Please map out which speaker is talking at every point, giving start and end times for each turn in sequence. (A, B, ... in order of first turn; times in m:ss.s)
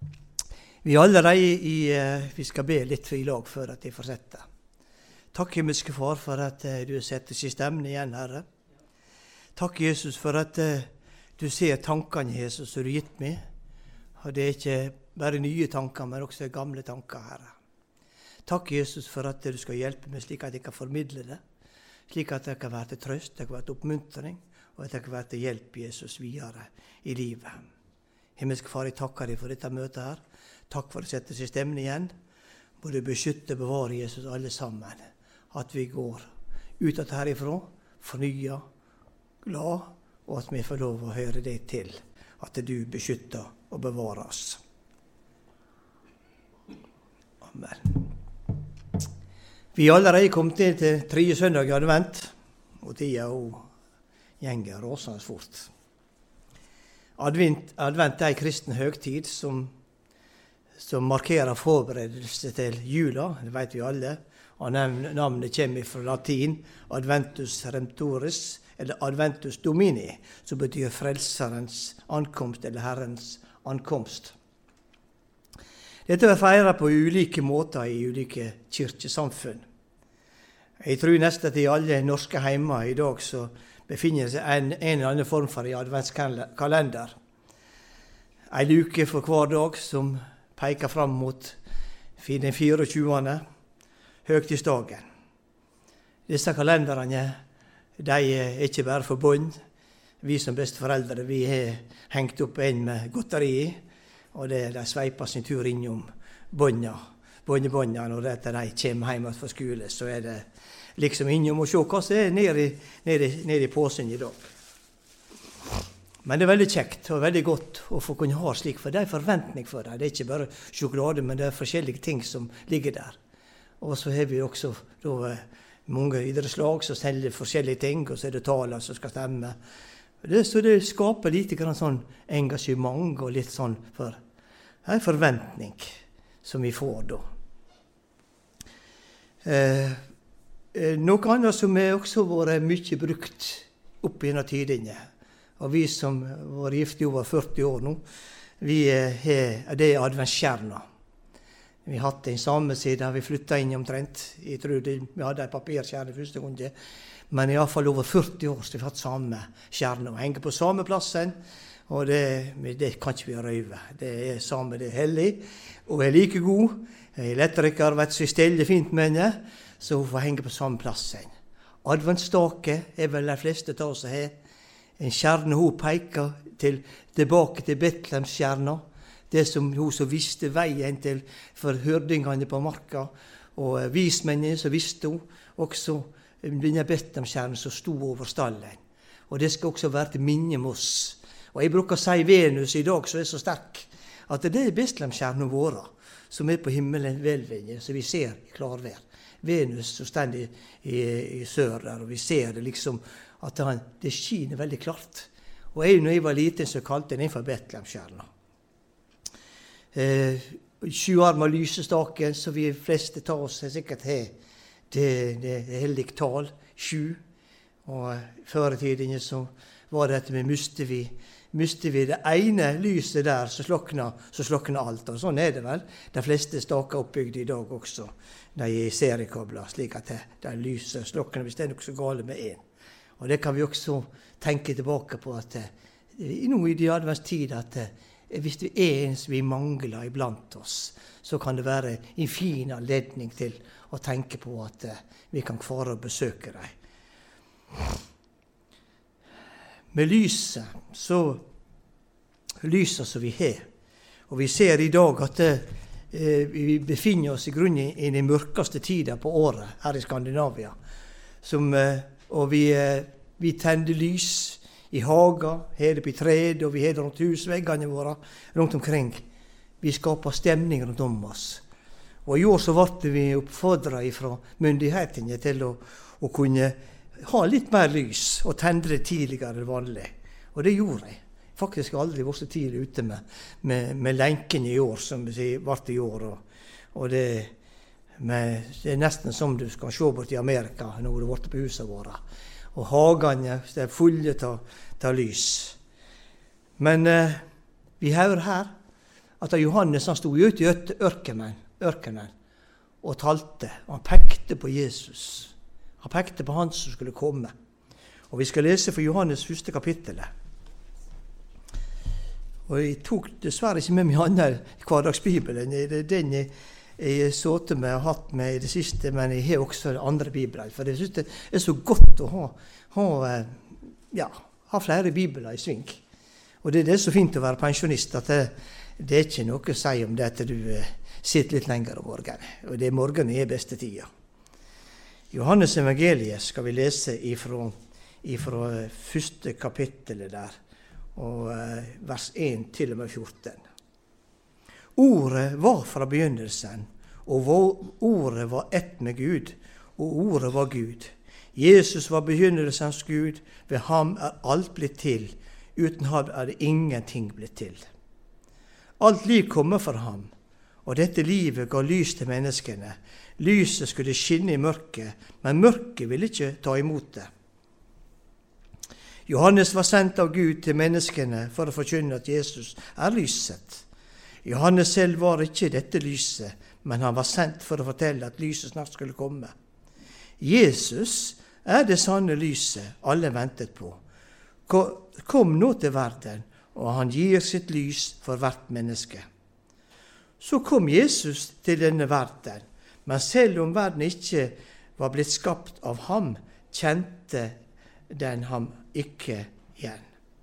0:00.8-0:04.4 A
0:05.3-0:08.4 A
0:09.6-0:13.4 A
0:14.2-0:17.6 A
0:18.4-0:21.4 A
0:22.1-0:27.6 A
0:28.4-0:32.1 A
0:32.8-0:38.6 A
0:39.4-0:44.6 A
0:47.4-0:48.1 A
0:49.7-0:53.6 A
0:54.4-0:55.7 A
0:57.2-0:59.7 A
1:00.8-1:14.4 A
1:16.1-1:19.6 A
1:20.8-1:27.1 A
1:28.5-1:31.6 A
1:32.2-1:33.4 A
1:34.2-1:35.0 A
1:36.3-1:37.4 A
1:38.0-1:39.6 A
1:40.2-1:43.8 A
1:44.3-1:50.4 A
1:51.0-1:54.5 A
1:56.2-2:03.2 A
2:03.8-2:09.6 A
2:10.2-2:14.2 A
2:14.8-2:17.2 A
2:19.4-2:20.0 A
2:20.7-2:25.0 A
2:25.6-2:28.0 A
2:28.6-2:30.8 A
2:31.8-2:36.7 A
2:37.3-2:41.4 A
2:41.9-2:51.3 A
2:51.8-2:54.3 A
2:55.0-3:28.3 A
3:29.9-3:34.3 A
3:34.9-3:37.2 A
3:37.8-3:52.6 A
3:53.2-4:06.7 A
4:09.9-4:11.4 A
4:12.6-4:13.6 A
4:14.3-4:20.8 A
4:21.4-4:29.2 A
4:29.8-4:31.6 A
4:32.2-4:46.4 A
4:46.9-4:47.5 A
4:48.2-4:52.2 A
4:52.7-4:55.8 A
4:56.8-4:57.4 A
4:58.0-4:58.7 A
4:59.4-5:02.3 A
5:03.0-5:07.5 A
5:08.3-5:10.3 A
5:12.7-5:26.0 A
5:26.6-5:34.1 A
5:35.3-5:40.6 A
5:41.2-5:43.6 A
5:45.0-5:57.8 A
5:59.0-6:00.3 A
6:00.8-6:07.3 A
6:09.3-6:13.8 A
6:14.4-6:19.5 A
6:20.4-6:24.0 A
6:24.7-6:29.2 A
6:30.4-6:37.6 A
6:38.1-6:40.1 A